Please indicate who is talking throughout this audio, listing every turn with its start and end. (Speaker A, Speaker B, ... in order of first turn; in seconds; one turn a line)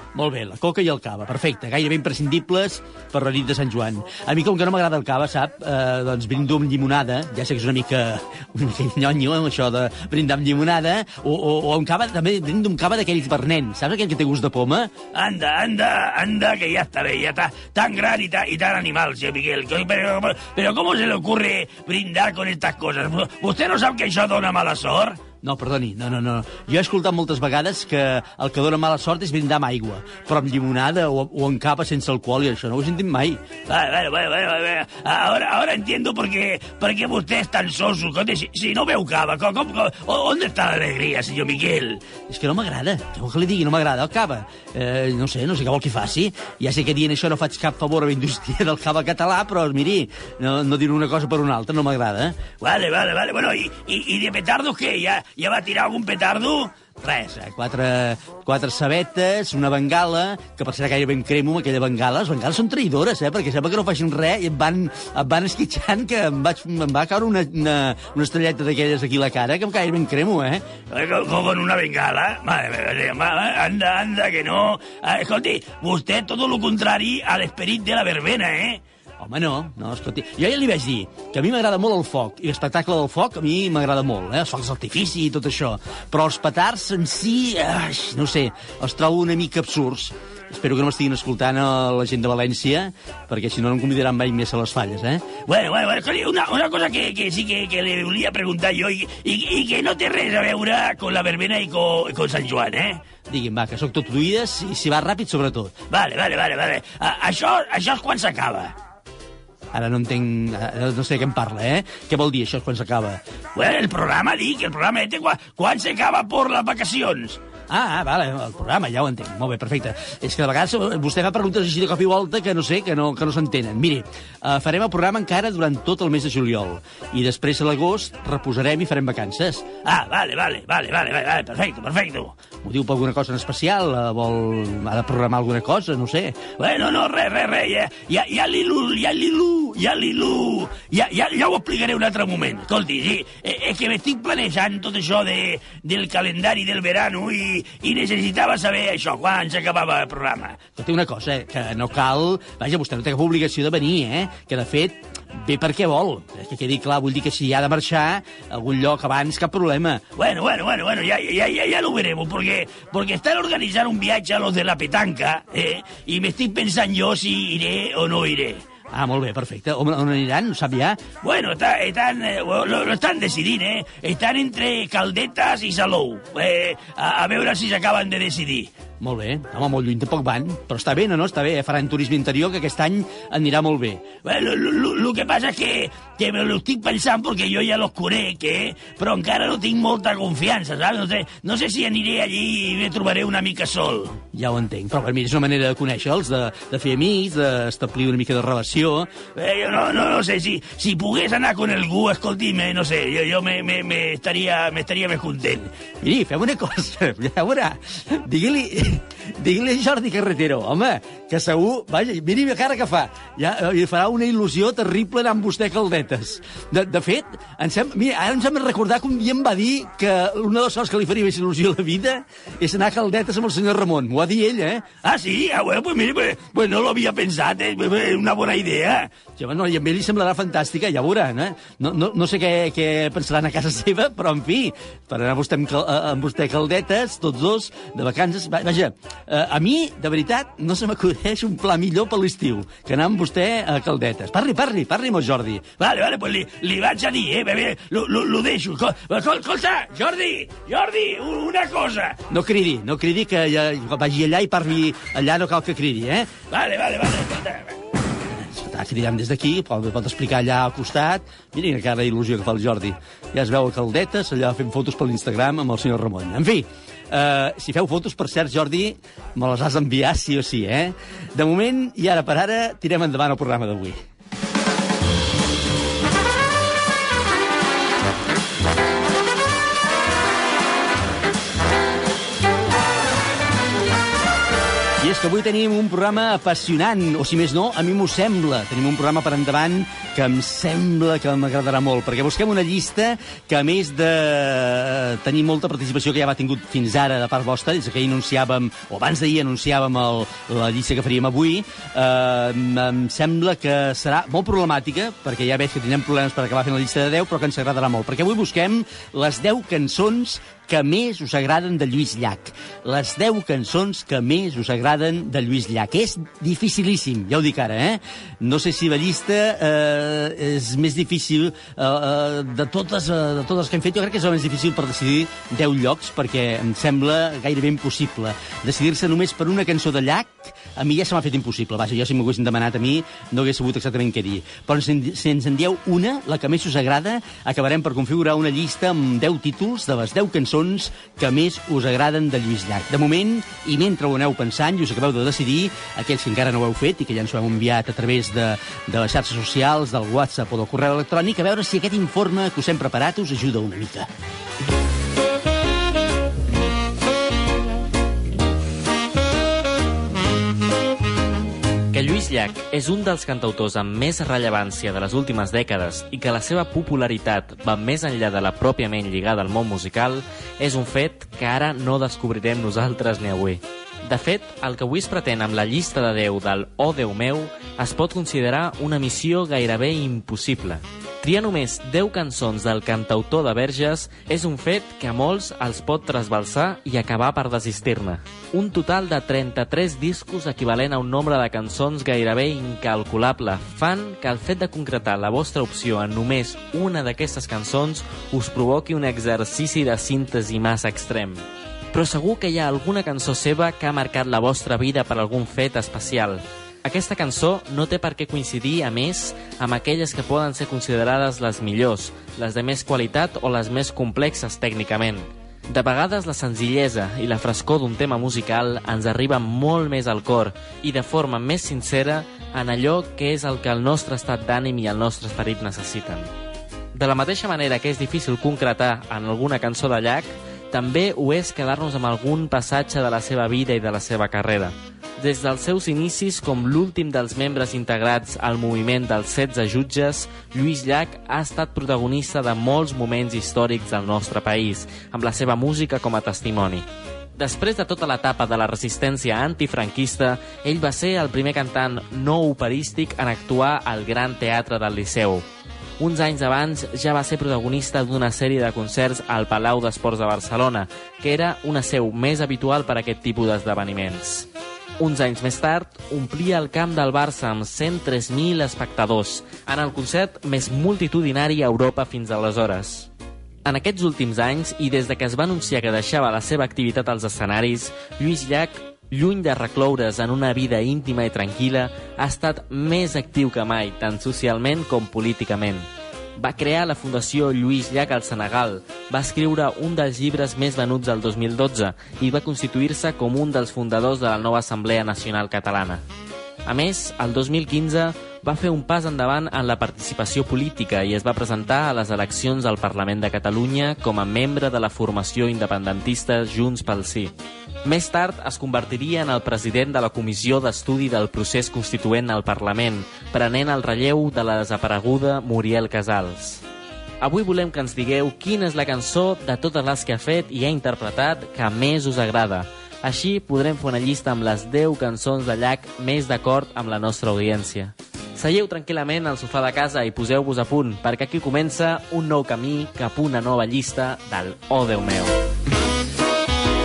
Speaker A: 0.1-14.9
Speaker B: 15.1-25.2
Speaker A: 25.4-33.4
Speaker B: 33.7-42.0
Speaker A: 42.3-52.5
Speaker B: 52.6-56.8
Speaker A: 57.0-70.7
Speaker B: 70.9-78.8
Speaker A: 79.2-95.4
Speaker B: 95.5-103.0
Speaker A: 103.3-105.7
Speaker B: 105.9-108.7
Speaker A: 109.7-113.2
Speaker B: 113.5-117.4
Speaker A: 117.7-129.8
Speaker B: 129.8-132.4
Speaker A: 132.6-136.5
Speaker B: 136.6-150.6
Speaker A: 150.7-160.0
Speaker B: 160.2-168.6
Speaker A: 168.9-171.1
Speaker B: 171.2-178.7
Speaker A: 179.0-184.1
Speaker B: 184.2-194.2
Speaker A: 194.3-199.2
Speaker B: 199.3-205.7
Speaker A: 206.0-224.9
Speaker B: 225.0-229.2
Speaker A: 229.3-245.8
Speaker B: 245.8-252.2
Speaker A: 252.3-256.3
Speaker B: 256.5-257.7
Speaker A: 258.3-274.0
Speaker A: 285.0-354.1
Speaker C: 361.9-426.3
Speaker C: 426.9-455.4
Speaker C: 456.0-464.5
Speaker C: 465.0-473.1
Speaker C: 473.6-496.0
Speaker C: 496.6-507.3
Speaker C: 507.8-516.6
Speaker C: 517.2-535.4